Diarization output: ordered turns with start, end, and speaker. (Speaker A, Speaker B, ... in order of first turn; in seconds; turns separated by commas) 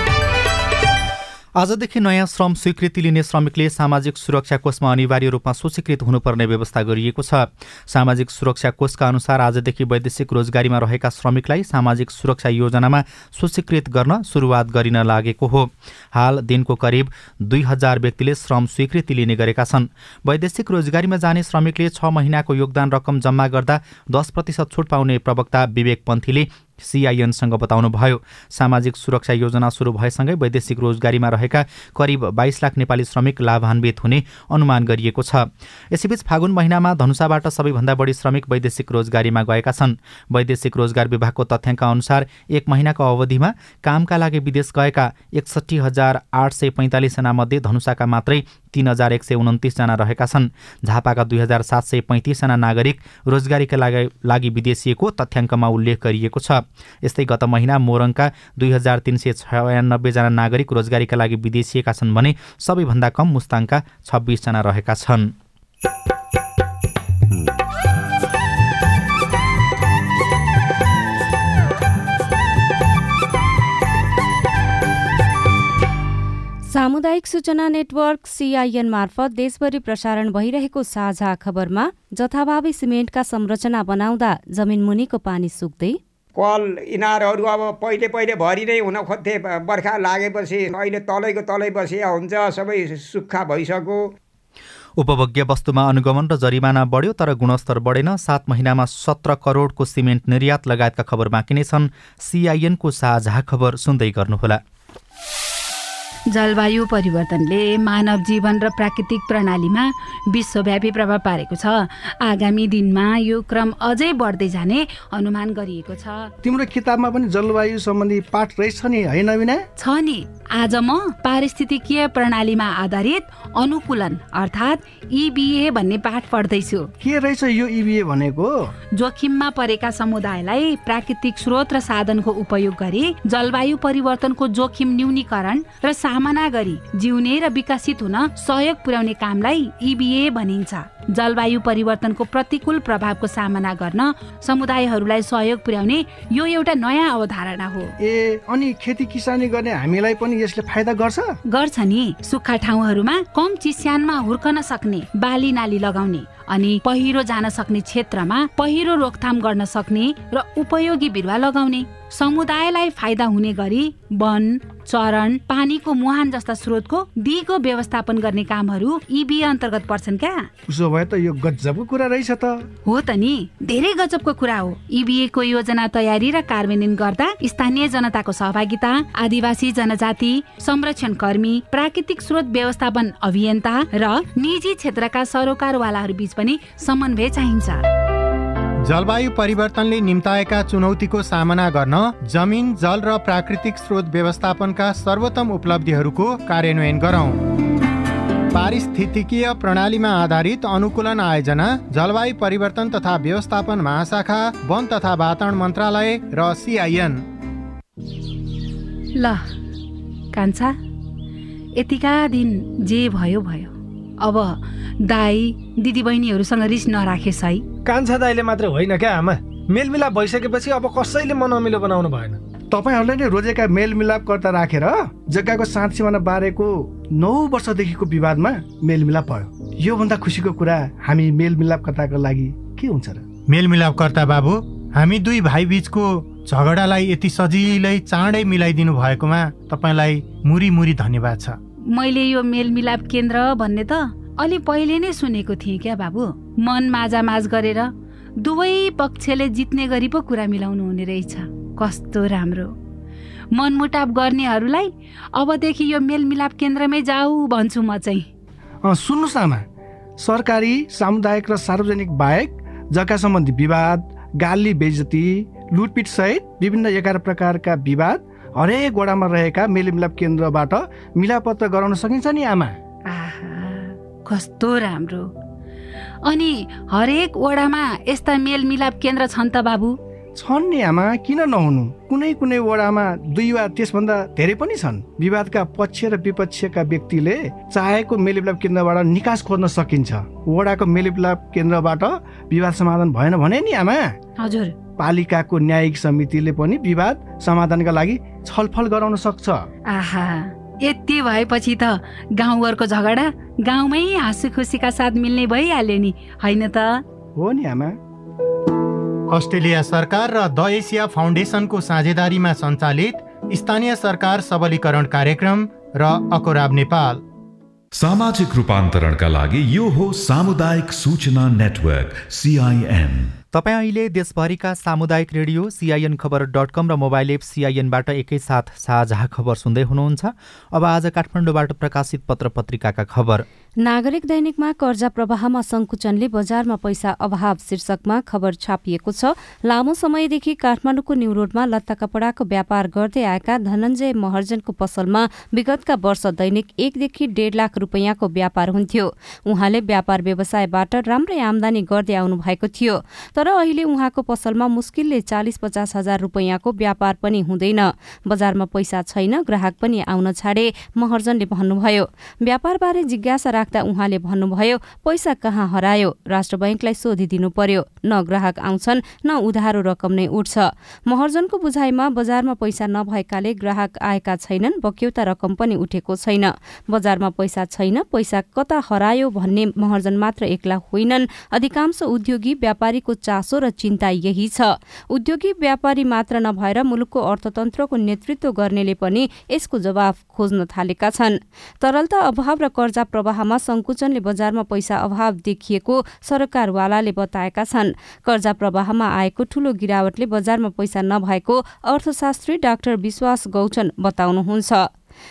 Speaker A: 1.6-65.3, Speaker B: 76.7-86.0, Speaker C: 86.4-94.0, Speaker A: 95.0-104.6, Speaker D: 106.3-116.3, Speaker E: 116.4-119.7, Speaker D: 119.8-126.9, Speaker E: 127.0-128.7, Speaker D: 128.9-147.9, Speaker E: 148.0-151.3, Speaker D: 151.5-170.5, Speaker E: 170.7-172.7, Speaker D: 172.8-187.8, Speaker F: 188.8-197.4, Speaker F: 198.5-207.2, Speaker D: 209.2-209.5, Speaker D: 210.3-210.8, Speaker D: 211.8-217.7, Speaker G: 217.8-222.4, Speaker E: 222.7-233.2, Speaker F: 233.5-241.6, Speaker D: 241.9-252.8, Speaker D: 253.5-258.3, Speaker E: 258.8-259.6, Speaker E: 260.2-272.8, Speaker D: 273.1-275.3, Speaker D: 276.2-280.0, Speaker E: 280.4-294.1, Speaker D: 294.4-294.8, Speaker E: 295.0-299.7, Speaker D: 299.9-307.0, Speaker E: 307.4-308.0, Speaker F: 309.3-317.2, Speaker H: 317.9-323.3, Speaker A: 323.5-333.4, Speaker B: 333.8-404.9